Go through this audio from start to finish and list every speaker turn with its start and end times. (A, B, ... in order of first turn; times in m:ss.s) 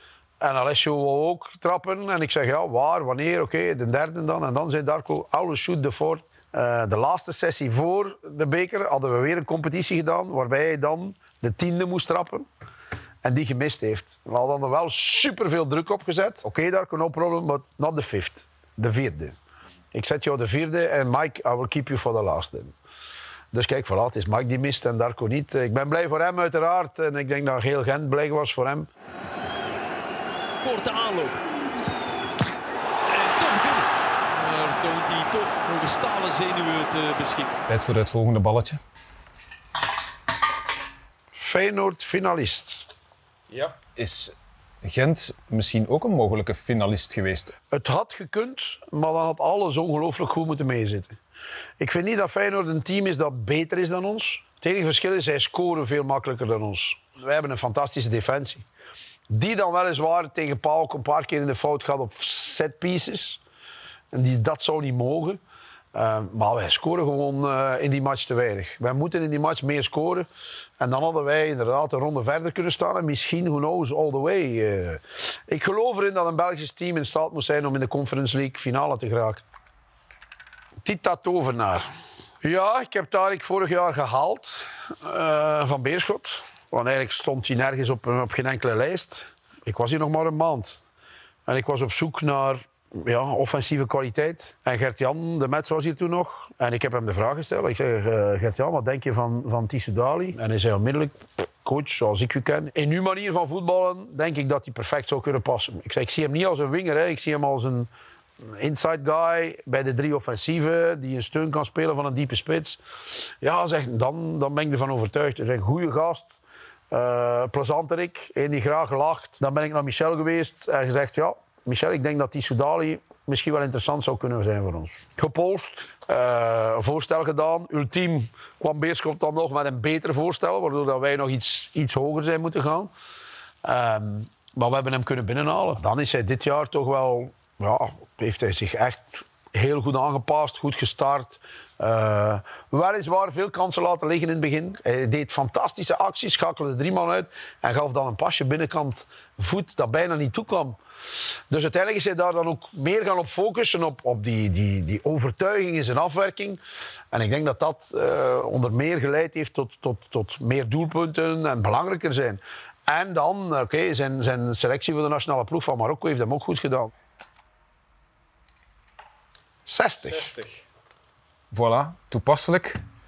0:00.4-0:12.5 A
0:13.2-0:19.4 A
0:19.9-0:22.7 A
0:23.5-0:28.9 A
0:30.6-0:31.4 B
0:33.1-0:37.6 B
0:37.7-0:38.8 C
0:41.3-0:42.9 A
0:43.5-0:47.5 C
0:47.7-0:51.2 A
0:51.8-0:58.6 A
0:59.3-1:03.4 A
1:04.1-1:05.4 A
1:05.9-1:10.3 A
1:10.8-1:19.4 A
1:20.8-1:21.9 A
1:22.4-1:30.9 A
1:31.5-1:47.9 A
1:48.4-1:52.8 A
1:53.4-1:56.4 A
1:56.9-2:12.9 A
2:13.6-2:30.8 A
2:31.5-2:36.6 A
2:37.1-2:46.9 A
2:49.7-2:50.4 A
2:50.2-2:50.6 C
2:51.5-2:52.8 C